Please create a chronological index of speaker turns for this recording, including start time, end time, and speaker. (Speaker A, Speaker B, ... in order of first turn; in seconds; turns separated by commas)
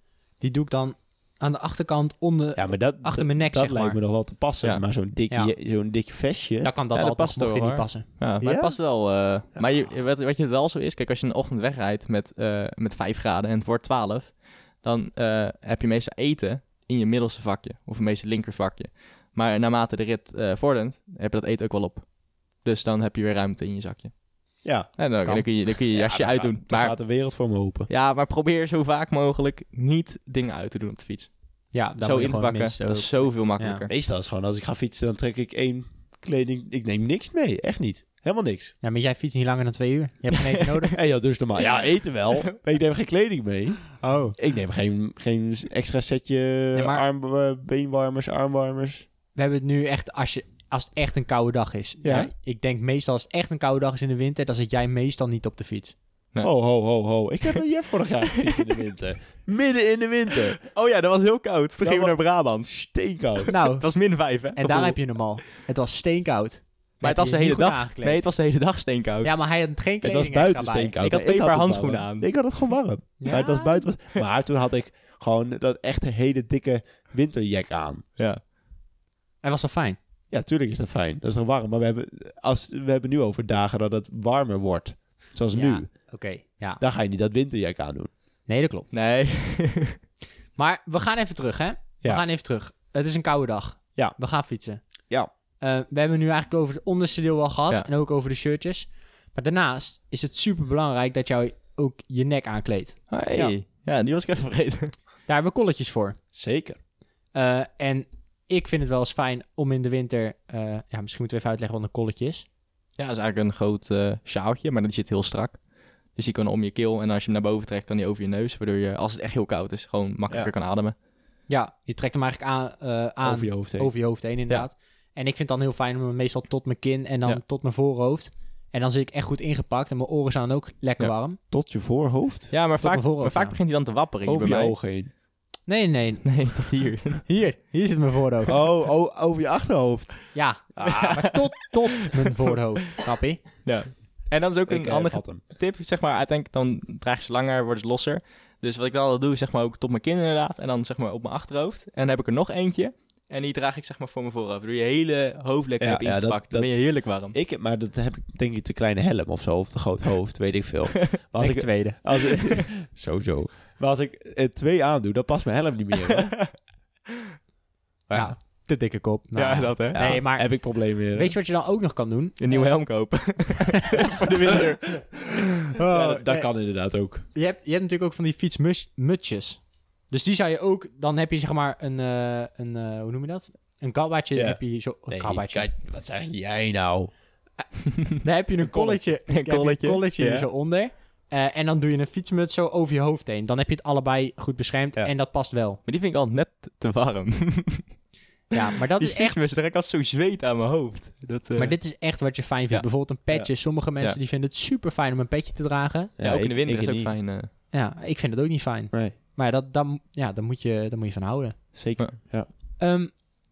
Speaker A: 0.4-4.0, Speaker B: 2.5-6.7, Speaker A: 6.6-8.1, Speaker C: 6.9-24.1, Speaker B: 8.4-8.8, Speaker B: 24.6-24.9, Speaker C: 25.0-26.9, Speaker B: 25.9-27.9, Speaker C: 27.9-31.3, Speaker A: 31.7-33.8, Speaker C: 32.0-33.9, Speaker B: 33.9-38.7, Speaker A: 38.8-40.9, Speaker B: 40.9-49.0, Speaker A: 44.0-44.3, Speaker A: 46.7-47.0, Speaker A: 49.4-55.9, Speaker B: 52.0-52.3, Speaker B: 56.4-60.6, Speaker C: 58.4-58.8, Speaker C: 60.6-62.8, Speaker B: 61.8-63.5, Speaker C: 63.4-65.0, Speaker A: 63.5-63.9, Speaker A: 64.5-68.2, Speaker C: 67.0-69.3, Speaker A: 69.2-71.0, Speaker B: 70.0-78.0, Speaker C: 71.0-72.5, Speaker A: 73.2-73.8, Speaker A: 79.4-80.0, Speaker B: 80.3-85.9, Speaker A: 85.5-86.8, Speaker B: 86.8-88.1, Speaker A: 88.5-88.9, Speaker C: 88.9-90.0, Speaker A: 90.6-94.8, Speaker A: 95.6-103.0, Speaker C: 103.1-104.9, Speaker A: 105.3-106.2, Speaker B: 106.3-106.8, Speaker A: 107.3-112.5, Speaker C: 113.0-115.6, Speaker C: 116.1-120.9, Speaker A: 121.5-131.4, Speaker B: 123.2-123.9, Speaker B: 131.5-132.5, Speaker C: 132.5-134.7, Speaker A: 132.8-133.6, Speaker B: 134.2-135.1, Speaker A: 135.7-136.4, Speaker C: 136.2-137.2, Speaker A: 137.2-138.6, Speaker B: 138.4-141.4, Speaker A: 140.3-143.4, Speaker C: 141.0-141.4, Speaker C: 143.6-157.3, Speaker B: 144.7-145.4, Speaker B: 155.8-166.3, Speaker A: 161.4-162.0, Speaker C: 166.1-166.5, Speaker B: 168.1-168.3, Speaker A: 168.1-173.0, Speaker C: 169.3-170.1, Speaker B: 169.9-171.3, Speaker C: 172.4-175.1, Speaker A: 175.8-176.5, Speaker B: 175.9-177.2, Speaker A: 177.3-185.7, Speaker B: 184.3-187.1, Speaker A: 188.2-195.8, Speaker B: 188.7-189.0, Speaker C: 189.3-190.5, Speaker C: 195.8-197.9, Speaker A: 198.5-199.3, Speaker C: 198.6-201.8, Speaker A: 201.6-206.1, Speaker B: 206.2-207.1, Speaker C: 206.2-207.5, Speaker A: 207.7-211.6, Speaker B: 211.7-212.5, Speaker A: 212.8-213.2